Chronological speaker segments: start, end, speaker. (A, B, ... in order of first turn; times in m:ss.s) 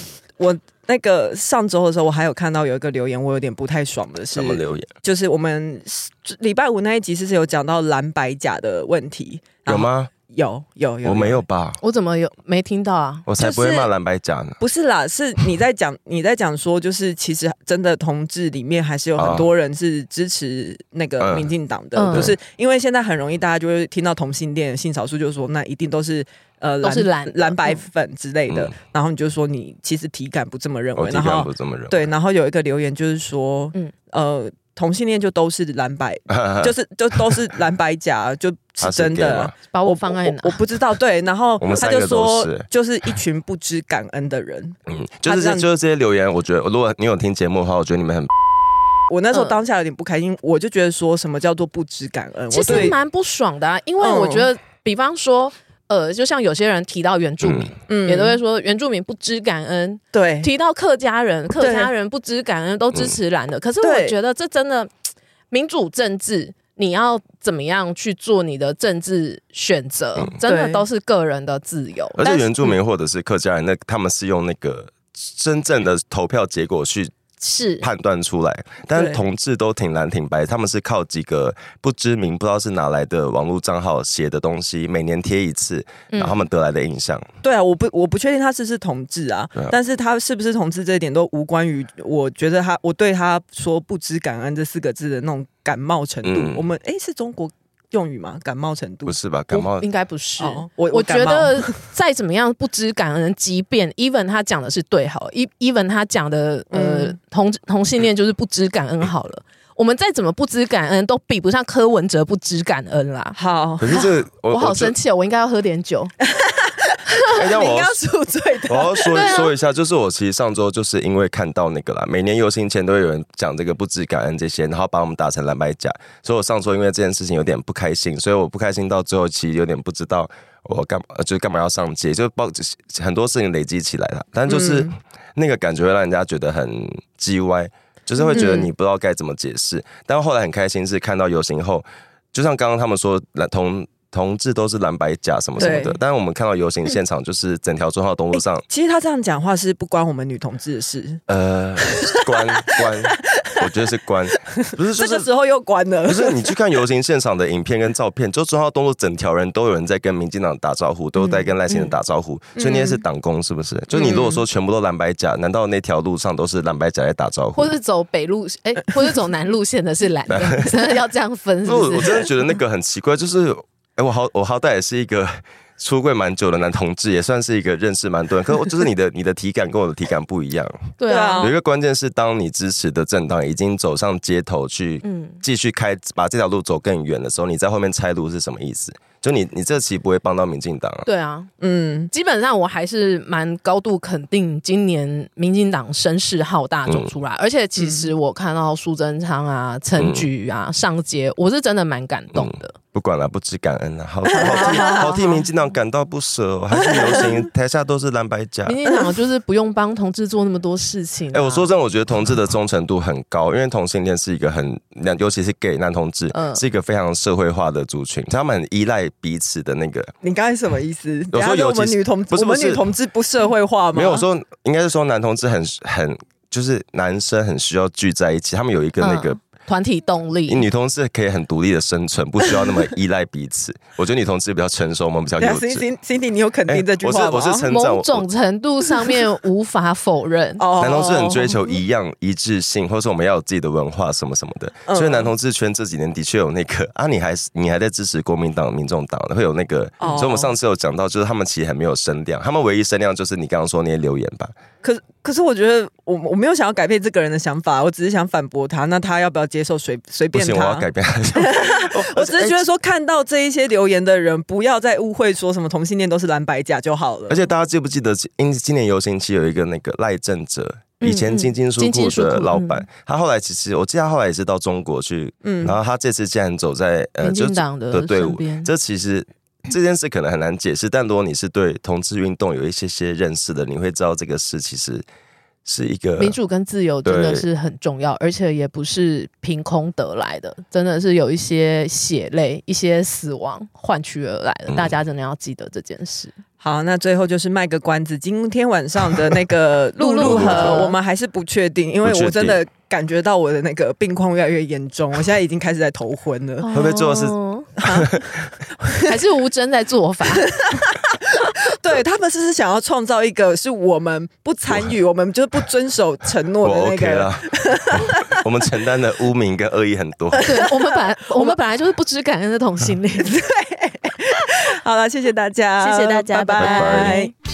0:00.4-0:11.4 A
0:04.3-0:04.9 B
0:09.6-0:10.1 B
0:11.0-0:11.8 B
0:11.8-0:13.2 C
0:13.3-0:14.6 B
0:13.4-0:13.9 A
0:14.6-0:45.7 A
0:19.2-0:19.5 B
0:21.2-0:21.5 B
0:21.9-0:22.3 C
0:26.8-0:27.8 C
0:31.0-0:32.0 B
0:36.3-0:37.4 B
0:38.8-0:39.5 B
0:39.7-0:40.6 C
0:41.6-0:42.7 B
0:44.9-0:48.3 B
0:49.1-0:53.0 A
0:52.5-1:04.9 C
0:52.7-0:52.9 B
0:54.0-0:54.5 A
0:57.4-0:57.7 B
0:57.9-0:58.4 A
1:00.1-1:00.5 A
1:01.6-1:01.9 A
1:03.8-1:04.2 A
1:05.5-1:12.7 C
1:10.4-1:10.8 A
1:12.2-1:17.1 B
1:17.4-1:17.9 C
1:17.8-1:27.3 B
1:18.9-1:19.2 A
1:26.1-1:26.4 C
1:27.4-1:39.2 A
1:36.2-1:36.6 B
1:39.0-1:39.9 B
1:39.5-1:53.4 C
1:40.4-1:41.7 A
1:46.7-1:47.2 A
1:53.3-1:54.0 A
1:53.8-1:54.9 B
1:53.9-1:56.1 C
1:56.2-1:59.4 A
1:57.3-1:58.0 B
1:58.7-2:28.6 B
1:59.1-1:59.5 C
2:14.5-2:14.9 A
2:18.3-2:18.7 A
2:25.6-2:26.0 A
2:28.3-2:31.2 A
2:31.3-2:35.3 B
2:31.8-2:33.7 A
2:34.5-2:36.5 A
2:36.0-2:47.7 B
2:41.2-2:41.9 C
2:42.6-2:43.0 A
2:43.9-2:44.4 A
2:47.6-2:52.3 C
2:50.3-2:50.8 B
2:51.6-3:11.1 B
3:01.0-3:01.5 C
3:01.1-3:01.6 A
3:05.0-3:05.4 C
3:11.0-3:11.5 C
3:11.6-3:12.1 A
3:12.1-3:22.7 C
3:17.8-3:18.1 A
3:20.0-3:20.3 B
3:22.3-3:28.8 B
3:24.3-3:25.4 A
3:24.4-3:25.3 C
3:26.8-3:27.4 A
3:28.6-3:31.7 C
3:28.8-3:29.1 A
3:31.3-3:40.1 B
3:36.3-3:36.6 C
3:40.2-3:44.2 A
3:41.3-3:42.8 B
3:43.9-3:49.4 B
3:49.0-3:50.6 C
3:50.5-3:55.8 B
3:55.4-3:57.6 A
3:56.7-3:58.2 B
3:57.7-4:00.7 C
4:00.6-4:01.6 A
4:00.8-4:14.5 B
4:04.9-4:05.3 A
4:10.0-4:10.5 A
4:14.8-4:27.5 A
4:20.3-4:22.6 B
4:27.3-4:45.0 B
4:31.0-4:32.8 C
4:35.4-4:35.8 A
4:37.2-4:38.7 C
4:45.6-4:46.4 B
4:46.2-4:56.4 C
4:47.0-4:47.4 B
4:56.6-5:06.7 A
5:00.0-5:00.9 C
5:00.2-5:00.8 B
5:02.0-5:02.6 B
5:06.6-5:07.7 C
5:06.7-5:08.3 B
5:07.8-5:08.2 A
5:08.8-5:09.1 A
5:09.0-5:10.5 C
5:10.4-5:18.4 A
5:16.6-5:20.5 B
5:20.3-5:20.7 A
5:20.4-5:23.4 C
5:21.3-5:21.6 A
5:23.2-5:27.3 A
5:25.8-5:27.3 C
5:26.6-5:27.2 B